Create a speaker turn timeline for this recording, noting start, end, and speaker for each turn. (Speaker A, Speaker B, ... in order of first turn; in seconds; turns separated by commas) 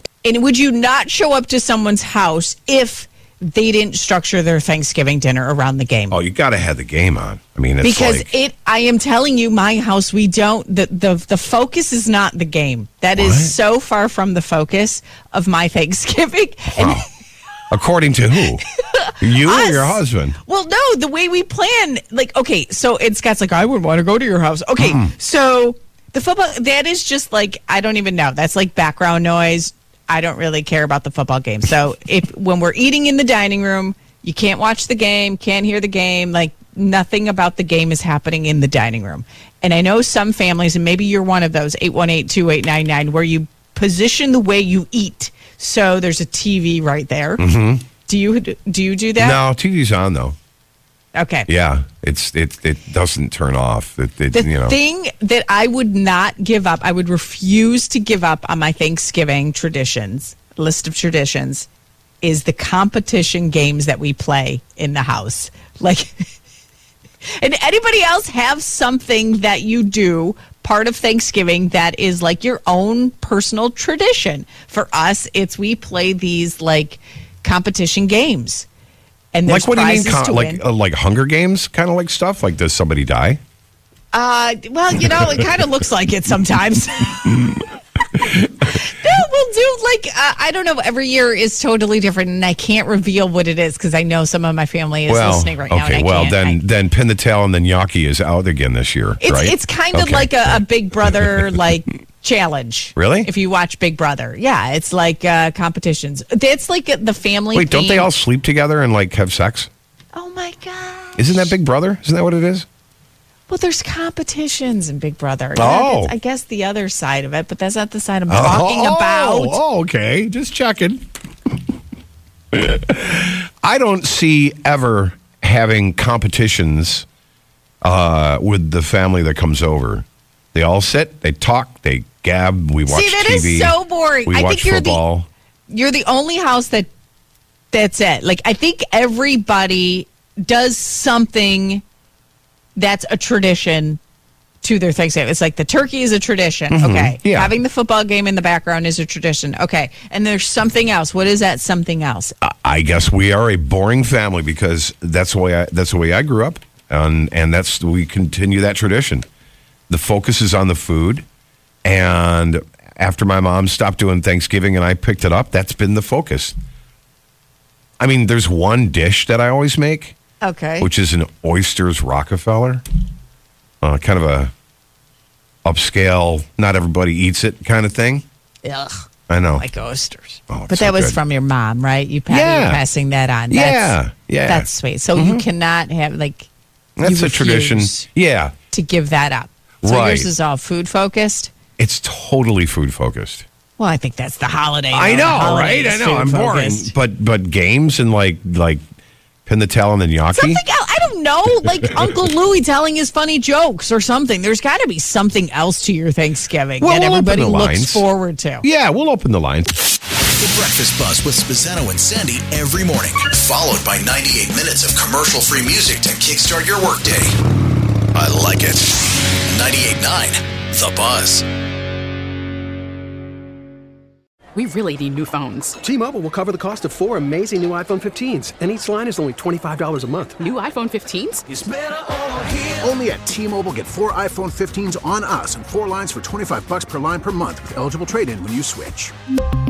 Speaker A: 0.2-6.2, Speaker B: 6.1-8.3, Speaker A: 7.8-17.0, Speaker B: 13.2-13.5, Speaker B: 16.7-17.1, Speaker B: 17.7-18.6, Speaker A: 18.9-47.4, Speaker B: 19.2-20.4, Speaker B: 24.8-25.1, Speaker B: 47.4-47.9, Speaker A: 48.1-49.4, Speaker B: 49.2-50.4, Speaker A: 51.1-51.5, Speaker B: 51.5-54.8, Speaker A: 54.3-61.7, Speaker A: 62.2-66.3, Speaker A: 67.4-78.7, Speaker A: 79.3-80.6, Speaker B: 79.5-83.4, Speaker A: 84.1-87.4, Speaker A: 88.7-96.6, Speaker B: 95.1-101.5, Speaker A: 99.2-108.1, Speaker B: 103.0-103.3, Speaker B: 107.5-109.7, Speaker A: 110.1-111.5, Speaker B: 111.2-112.7, Speaker A: 113.5-119.6, Speaker B: 115.6-116.1, Speaker B: 118.3-121.0, Speaker B: 122.5-127.1, Speaker B: 127.8-133.7, Speaker A: 132.9-135.0, Speaker B: 134.3-135.3, Speaker A: 135.7-136.9, Speaker A: 137.7-141.8, Speaker A: 142.8-144.0, Speaker A: 144.6-152.3, Speaker B: 146.7-147.5, Speaker B: 152.4-159.3, Speaker B: 159.9-161.2, Speaker B: 161.8-166.5, Speaker B: 168.0-170.2, Speaker A: 170.4-170.9, Speaker B: 170.8-172.8, Speaker B: 173.8-174.5, Speaker B: 175.7-178.2, Speaker A: 178.6-186.5, Speaker B: 179.3-179.7, Speaker B: 180.5-181.2, Speaker B: 182.3-182.8, Speaker B: 183.5-185.4, Speaker B: 187.0-188.5, Speaker A: 187.0-188.1, Speaker A: 188.7-191.5, Speaker B: 189.8-190.3, Speaker B: 191.8-193.5, Speaker A: 193.8-196.9, Speaker B: 194.9-198.8, Speaker B: 199.5-200.6, Speaker A: 200.3-208.7, Speaker B: 206.8-208.0, Speaker B: 208.6-209.7, Speaker C: 210.3-217.3, Speaker C: 218.1-221.4, Speaker D: 224.6-225.8, Speaker E: 225.8-230.4, Speaker D: 230.4-231.4, Speaker F: 231.5-239.2